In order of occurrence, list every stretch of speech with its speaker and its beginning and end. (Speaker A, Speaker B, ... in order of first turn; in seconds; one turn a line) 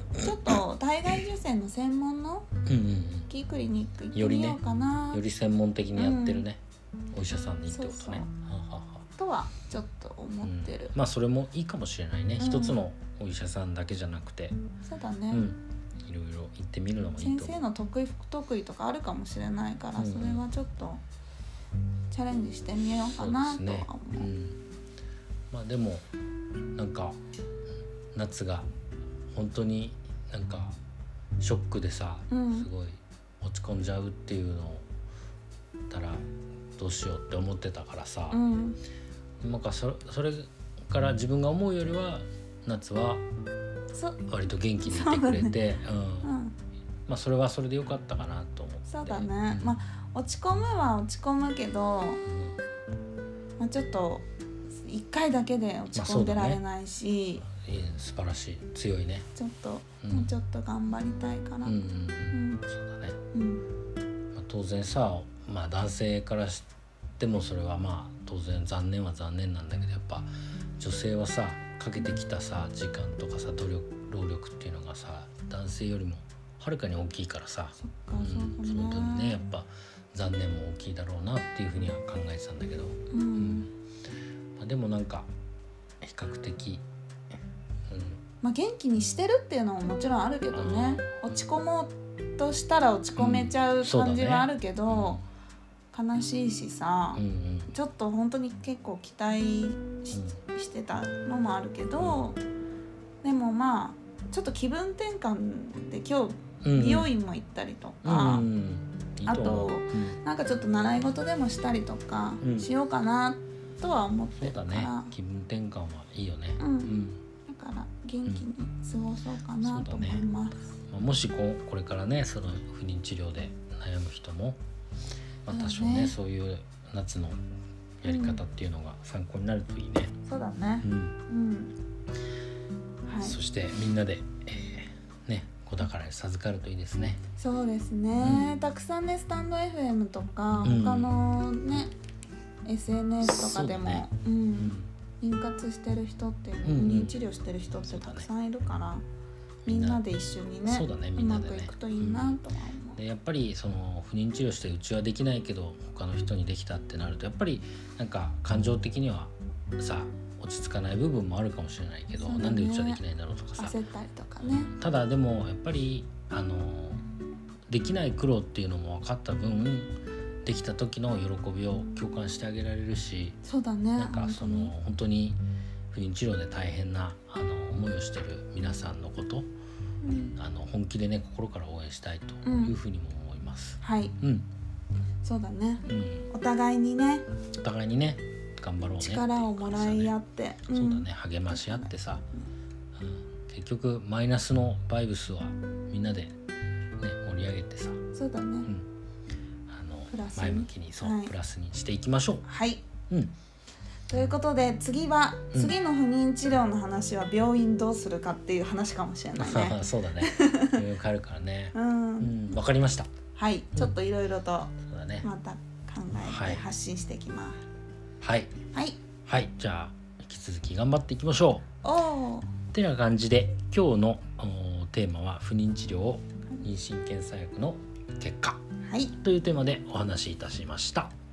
Speaker A: 0.2-2.5
Speaker B: 2.7-3.3
Speaker A: 3.3-5.2
Speaker B: 4.2-4.6
Speaker B: 5.1-6.6
Speaker A: 6.0-6.5
Speaker B: 7.1-9.0
Speaker A: 7.7-8.3
Speaker A: 9.1-10.9
Speaker B: 10.4-14.6
Speaker A: 12.4-12.8
Speaker A: 14.9-15.5
Speaker B: 15.3-17.6
Speaker A: 17.2-21.0
Speaker B: 20.0-20.4
Speaker A: 22.1-24.3
Speaker B: 23.2-24.6
Speaker B: 25.5-26.1
Speaker B: 26.8-27.2
Speaker B: 28.1-28.7
Speaker B: 29.3-30.8
Speaker B: 31.4-34.9
Speaker A: 32.3-32.7
Speaker B: 35.9-36.2
Speaker B: 36.8-38.4
Speaker A: 38.3-38.8
Speaker B: 39.4-43.2
Speaker A: 43.9-44.2
Speaker B: 44.3-46.3
Speaker A: 44.9-45.6
Speaker A: 46.2-46.5
Speaker B: 47.1-49.8
Speaker A: 48.9-52.2
Speaker B: 52.2-52.6
Speaker A: 53.6-54.3
Speaker A: 54.8-57.5
Speaker B: 55.9-56.6
Speaker B: 57.5-59.3
Speaker A: 59.4-61.8
Speaker B: 60.0-60.3
Speaker B: 61.6-63.2
Speaker A: 62.3-62.6
Speaker A: 63.3-63.6
Speaker B: 64.3-66.7
Speaker B: 67.2-83.7
Speaker A: 77.8-79.4
Speaker A: 83.1-83.7
Speaker B: 84.6-85.3
Speaker B: 86.0-86.8
Speaker B: 87.9-88.2
Speaker A: 88.4-95.2
Speaker B: 90.5-91.3
Speaker B: 93.2-95.2
Speaker A: 95.9-102.4
Speaker B: 97.2-97.7
Speaker B: 100.1-100.4
Speaker B: 102.0-102.3
Speaker A: 103.2-108.5
Speaker B: 106.6-107.1
Speaker B: 108.0-110.2
Speaker A: 109.3-115.1
Speaker B: 112.4-112.7
Speaker B: 114.4-117.2
Speaker A: 116.6-116.9
Speaker A: 117.5-120.7
Speaker B: 119.6-120.2
Speaker B: 120.9-124.6
Speaker B: 125.5-127.4
Speaker A: 125.5-126.2
Speaker B: 128.0-130.2
Speaker A: 128.1-128.4
Speaker A: 130.2-131.8
Speaker B: 130.8-131.2
Speaker A: 133.1-133.4
Speaker B: 133.2-137.2
Speaker A: 137.4-141.9
Speaker B: 138.2-138.6
Speaker B: 140.6-141.2
Speaker A: 142.7-149.1
Speaker B: 143.2-144.9
Speaker B: 146.7-147.2
Speaker B: 147.8-148.3
Speaker B: 149.7-150.0
Speaker A: 149.7-153.0
Speaker B: 150.7-152.4
Speaker B: 153.0-163.8
Speaker A: 162.2-163.0
Speaker A: 163.6-164.7
Speaker B: 164.4-167.0
Speaker B: 167.7-169.9
Speaker B: 170.4-173.4
Speaker A: 173.4-174.7
Speaker B: 174.0-175.4
Speaker B: 175.9-179.5
Speaker A: 180.0-180.4
Speaker B: 180.4-184.5
Speaker A: 182.4-182.8
Speaker A: 183.8-184.2
Speaker A: 185.2-187.3
Speaker B: 185.9-186.3
Speaker B: 187.6-190.1
Speaker A: 189.0-192.5
Speaker B: 190.7-192.2
Speaker B: 192.9-196.4
Speaker B: 197.0-198.0
Speaker A: 198.1-198.7
Speaker B: 199.7-202.4
Speaker A: 200.1-201.3
Speaker A: 202.4-202.8
Speaker A: 204.1-210.8
Speaker B: 209.4-213.1
Speaker A: 211.7-212.3
Speaker A: 213.3-217.6
Speaker B: 214.8-215.3
Speaker B: 216.2-216.6
Speaker B: 218.2-218.6
Speaker A: 218.7-219.0
Speaker B: 219.2-221.7
Speaker A: 221.8-222.5
Speaker B: 222.7-228.6
Speaker A: 228.8-229.2
Speaker B: 229.2-231.1